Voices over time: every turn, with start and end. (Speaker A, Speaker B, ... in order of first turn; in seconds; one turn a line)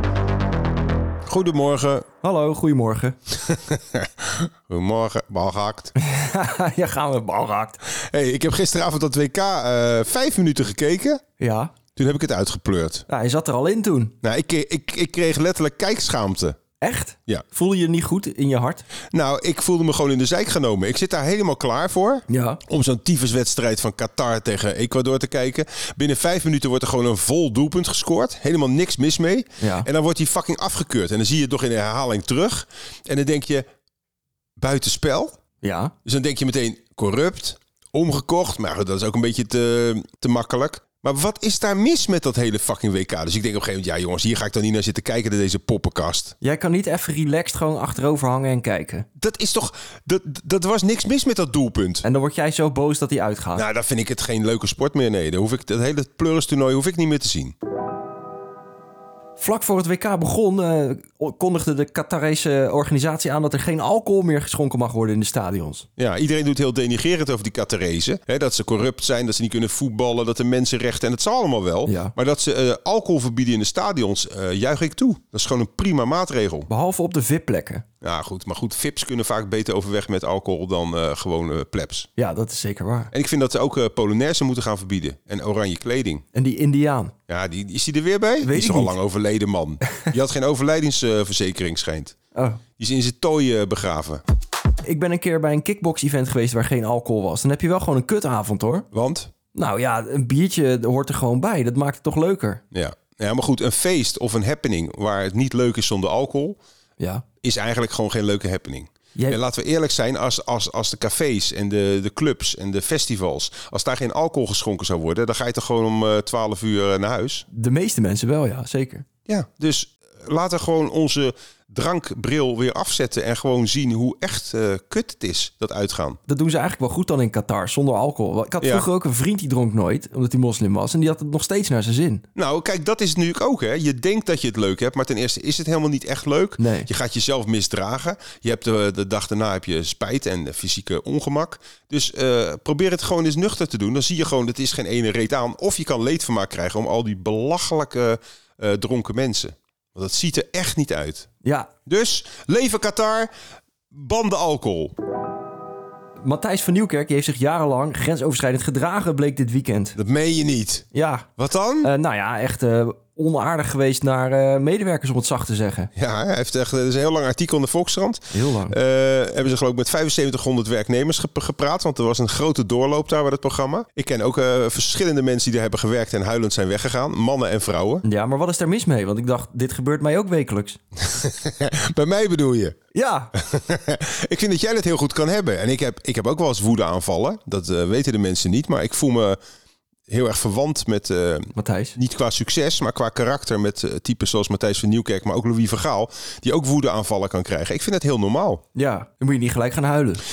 Speaker A: 1.3-2.0
Speaker B: 2.2-3.1
Speaker A: 3.4-5.9
Speaker B: 6.0-7.8
Speaker A: 7.9-11.2
Speaker B: 11.4-11.7
Speaker A: 11.9-13.0
Speaker B: 13.1-14.1
Speaker A: 14.2-16.6
Speaker B: 16.8-18.8
Speaker A: 19.1-33.6
Speaker B: 22.3-22.6
Speaker B: 29.6-29.9
Speaker A: 34.6-35.4
Speaker B: 35.6-35.9
Speaker A: 36.0-46.4
Speaker B: 46.4-49.0
Speaker A: 49.2-52.0
Speaker B: 52.0-53.6
Speaker A: 53.5-57.5
Speaker B: 59.4-65.9
Speaker A: 66.0-76.7
Speaker B: 71.8-72.1
Speaker B: 76.7-77.8
Speaker A: 78.0-82.1
Speaker B: 82.2-83.1
Speaker A: 83.1-86.2
Speaker B: 86.3-87.1
Speaker A: 87.3-92.1
Speaker B: 88.4-88.9
Speaker B: 92.3-92.6
Speaker A: 92.8-94.2
Speaker B: 94.8-98.9
Speaker A: 98.9-99.3
Speaker B: 99.5-102.6
Speaker A: 102.7-106.6
Speaker B: 107.0-107.2
Speaker A: 107.4-117.5
Speaker B: 117.5-119.0
Speaker A: 119.3-126.2
Speaker B: 126.3-132.2
Speaker A: 128.6-128.9
Speaker A: 132.3-151.3
Speaker B: 136.6-136.9
Speaker B: 151.4-151.7
Speaker A: 151.9-153.3
Speaker A: 153.9-154.9
Speaker B: 156.2-160.0
Speaker A: 160.0-160.8
Speaker B: 160.9-161.3
Speaker A: 161.4-161.9
Speaker B: 161.8-165.9
Speaker A: 165.9-178.0
Speaker B: 168.3-168.8
Speaker B: 178.0-180.8
Speaker A: 181.0-182.8
Speaker B: 182.9-183.3
Speaker A: 183.3-189.4
Speaker A: 190.1-198.6
Speaker B: 191.6-192.0
Speaker B: 198.7-200.2